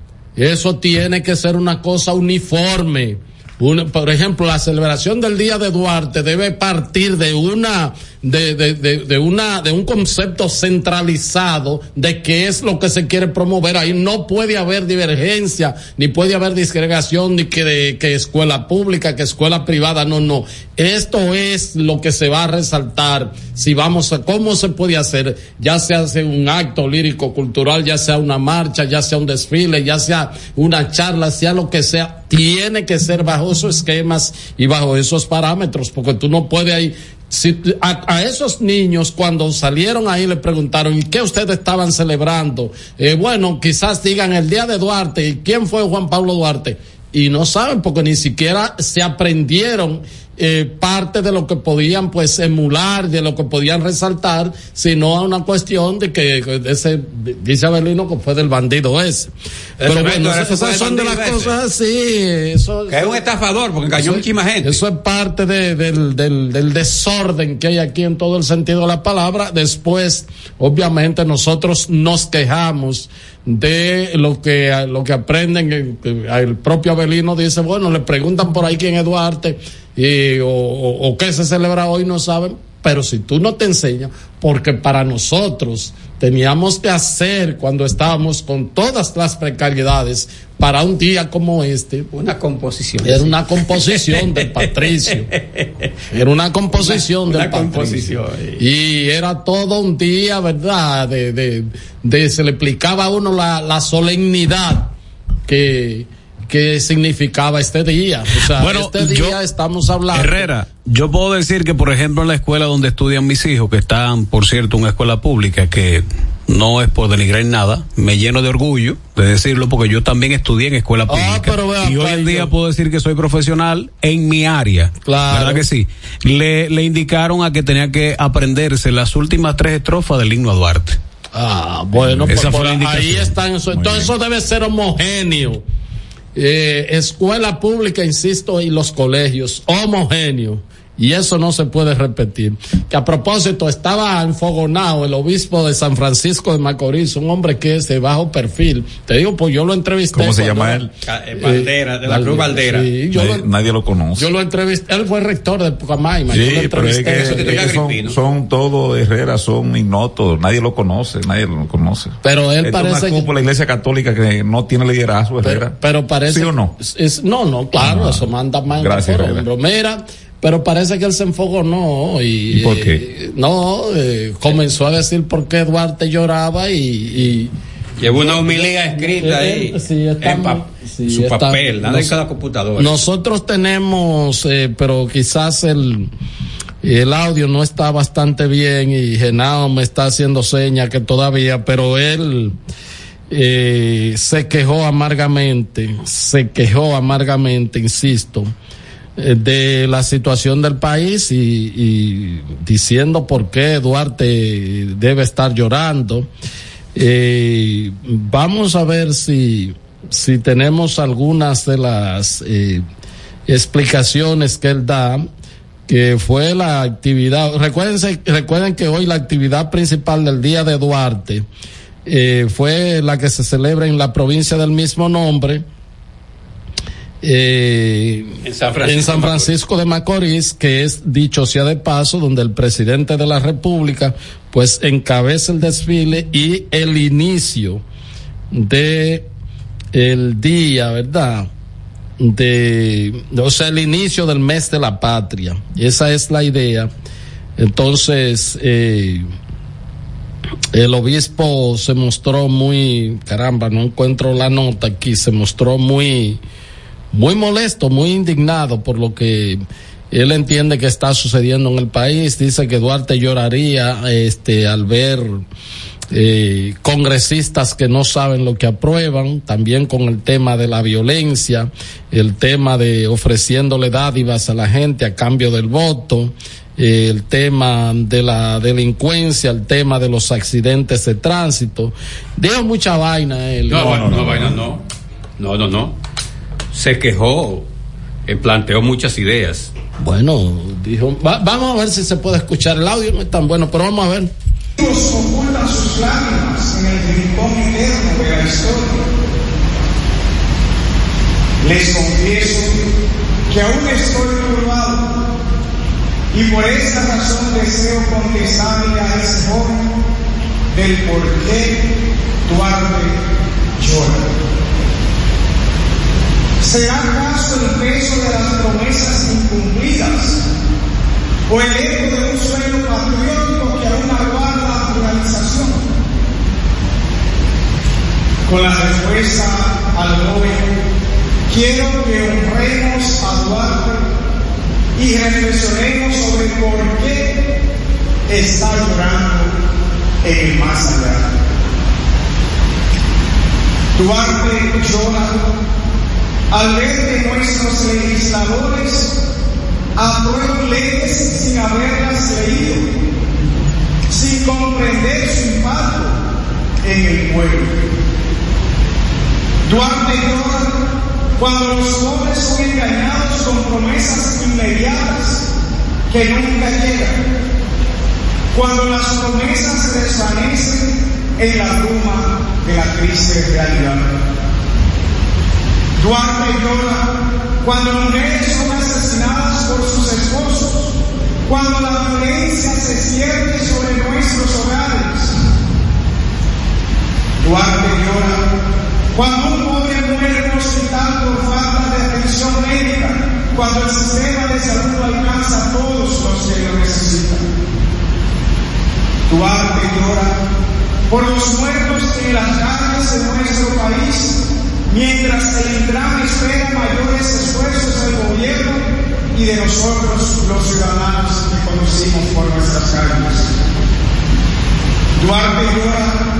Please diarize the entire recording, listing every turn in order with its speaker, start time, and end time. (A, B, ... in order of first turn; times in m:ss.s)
0:00.4-0:59.3 A
0:59.8-1:01.5 B
0:59.8-1:03.2 A
1:02.9-1:04.8 B
1:04.0-1:32.1 A
1:32.1-1:35.7 B
1:33.0-1:35.3 A
1:36.1-1:44.9 A
1:36.7-1:38.6 B
1:45.5-1:50.5 A
1:48.5-1:49.4 C
1:50.1-2:11.0 C
2:01.1-2:02.5 A
2:05.0-2:05.7 A
2:11.3-2:15.6 A
2:12.1-2:13.0 D
2:12.3-2:13.3 C
2:13.7-2:14.1 D
2:16.4-2:30.9 A
2:30.1-2:30.9 D
2:31.0-2:32.9 B
2:31.4-2:33.5 A
2:33.1-2:34.3 D
2:34.2-2:37.7 A
2:36.3-2:46.8 D
2:37.2-2:38.2 B
2:42.2-2:43.3 A
2:45.4-2:57.5 A
2:47.8-2:49.5 D
2:52.5-2:53.0 D
2:58.0-3:03.0 B
2:58.1-3:02.2 A
3:02.8-3:06.1 A
3:06.8-3:12.6 A
3:13.3-3:18.5 A
3:19.2-3:26.3 A
3:27.0-3:32.8 A
3:33.5-3:35.3 A
3:35.9-3:41.5 A
3:42.1-3:45.6 A
3:47.2-3:57.8 A
3:48.4-3:49.5 B
3:58.5-3:59.3 A
3:59.9-4:01.5 A
4:02.2-4:06.9 A
4:07.6-4:09.3 A
4:10.7-4:16.4 A
4:17.1-4:19.6 A
4:20.1-4:25.4 A
4:26.1-4:44.5 A
4:43.7-4:44.8 B
4:44.2-4:44.5 D
4:45.4-4:46.0 B
4:46.7-4:47.7 B
4:48.3-4:49.7 B
4:50.0-4:54.3 A
4:54.8-4:59.1 E
5:01.6-5:02.8 E
5:03.5-5:05.2 E
5:06.3-5:09.9 E
5:10.7-5:11.8 E
5:12.5-5:13.2 E
5:13.8-5:14.2 E
5:16.6-5:20.4 E
5:21.5-5:25.8 E
5:28.5-5:30.7 E
5:31.5-5:34.0 E
5:35.0-5:37.4 E
5:38.3-5:39.5 E
5:40.2-5:41.3 E
5:44.0-5:45.5 E
5:46.5-5:49.2 E
5:50.0-5:52.9 E
5:54.1-5:56.2 E
5:56.8-5:57.8 E
5:59.6-6:00.8 E
6:01.4-6:05.4 E
6:06.1-6:07.2 E
6:08.5-6:14.1 E
6:16.0-6:17.1 E
6:17.6-6:21.0 E
6:21.5-6:25.4 E
6:27.4-6:28.4 E
6:29.1-6:37.4 E
6:39.3-6:40.4 E
6:41.1-6:53.5 E
6:55.2-6:56.2 E